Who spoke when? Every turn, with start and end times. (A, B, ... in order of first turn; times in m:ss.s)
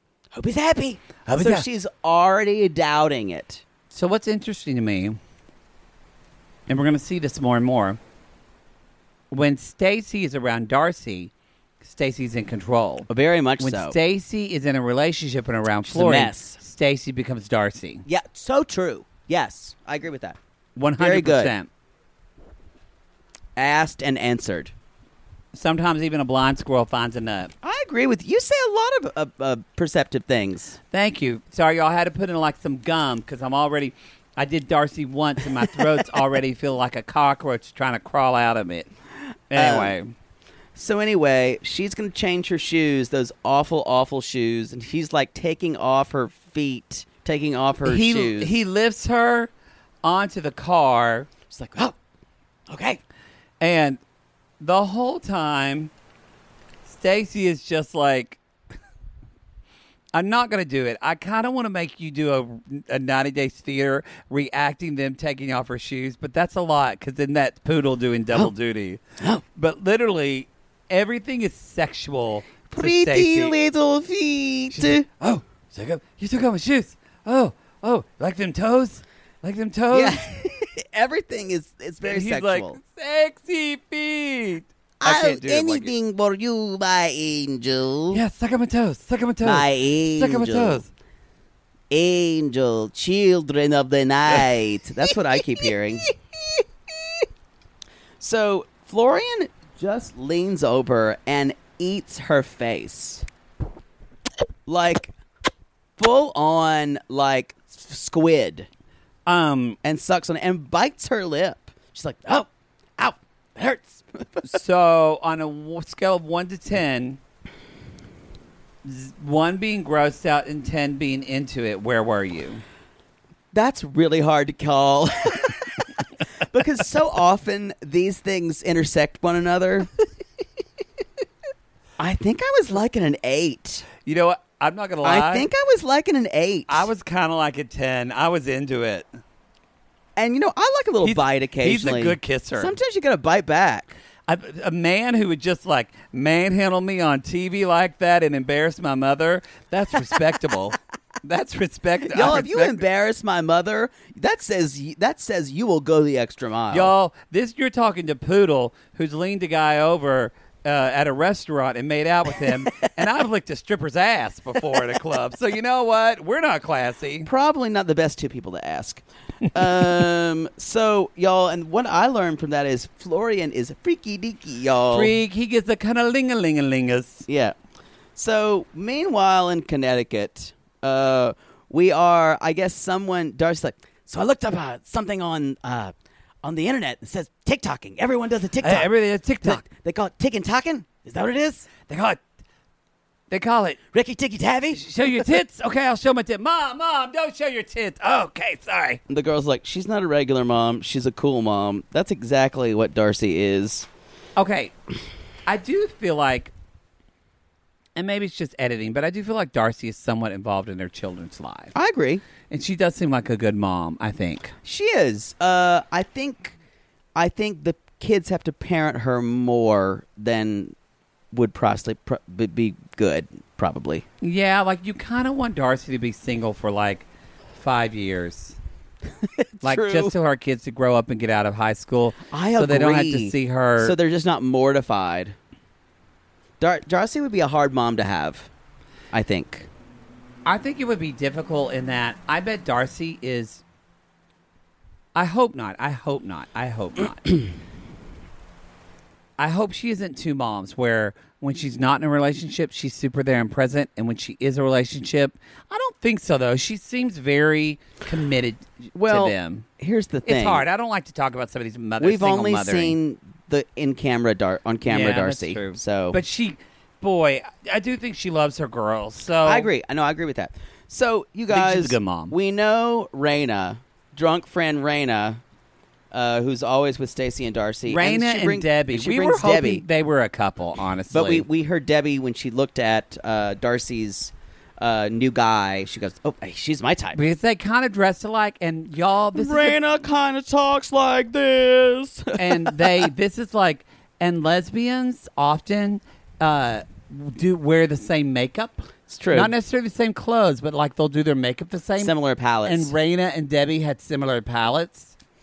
0:00.3-0:03.6 A
0:01.2-0:01.6 B
0:03.9-0:05.2 B
0:06.7-0:08.0 B
0:09.3-0:11.3 B
0:11.8-0:18.0 B
0:13.1-0:14.0 A
0:15.8-0:16.6 A
0:18.0-0:20.4 A
0:20.8-0:21.7 B
0:21.0-0:21.5 A
0:23.6-0:24.7 A
0:25.5-0:27.5 B
0:27.6-0:30.8 A
0:30.9-0:38.9 B
0:39.5-0:40.1 B
0:39.5-0:39.9 A
0:40.7-0:48.5 A
0:47.8-0:49.5 B
0:50.0-0:51.3 B
0:51.5-0:52.0 A
0:52.7-0:53.0 A
0:53.6-0:54.0 B
0:54.6-0:55.9 B
0:56.8-0:58.4 B
1:00.1-1:09.0 B
1:09.5-1:13.6 B
1:12.7-1:15.0 A
1:14.7-1:20.2 B
1:19.9-1:22.8 A
1:22.0-1:25.9 B
1:25.0-1:28.2 A
1:28.1-1:30.9 B
1:29.4-1:30.8 A
1:31.9-1:36.1 A
1:38.2-1:43.3 A
1:44.7-1:45.1 A
1:46.0-1:48.7 A
1:49.2-1:49.8 B
1:49.8-1:54.6 A
1:54.4-1:57.2 B
1:58.8-2:02.6 B
2:03.5-2:05.8 A
2:06.4-2:09.9 A
2:12.0-2:13.9 A
2:14.0-2:15.5 B
2:15.0-2:16.9 A
2:16.7-2:19.1 B
2:20.2-2:24.0 A
2:21.0-2:22.7 B
2:24.3-2:32.8 B
2:32.0-2:36.9 A
2:36.7-2:47.3 B
2:47.2-2:55.1 A
2:54.9-2:57.2 B
2:57.3-2:57.6 A
2:58.2-3:08.9 A
3:08.6-3:09.6 B
3:09.4-3:11.7 A
3:11.9-3:12.2 B
3:13.3-3:13.8 B
3:13.9-3:14.8 A
3:14.7-3:19.0 B
3:19.1-3:23.9 A
3:24.4-3:24.7 B
3:25.4-3:26.5 B
3:28.0-3:31.7 B
3:31.7-3:32.2 A
3:32.5-3:34.5 B
3:34.6-3:36.6 A
3:37.1-3:40.7 A
3:41.3-3:44.0 A
3:44.2-3:48.6 B
3:49.2-3:50.1 A
3:49.6-3:54.0 B
3:52.3-3:55.4 A
3:56.6-3:58.5 A
3:59.1-3:59.7 A
4:00.4-4:03.6 B
4:05.1-4:07.4 B
4:09.4-4:19.6 B
4:18.9-4:20.6 A
4:20.2-4:23.0 B
4:22.0-4:26.2 A
4:24.8-4:29.7 B
4:29.4-4:35.4 A
4:31.5-4:32.3 B
4:36.1-4:39.8 A
4:37.9-4:41.5 B
4:41.1-4:47.2 A
4:47.1-4:49.8 B
4:49.3-4:53.1 A
4:52.4-5:02.1 B
4:59.1-4:59.5 A
5:02.0-5:02.9 A
5:02.6-5:05.1 B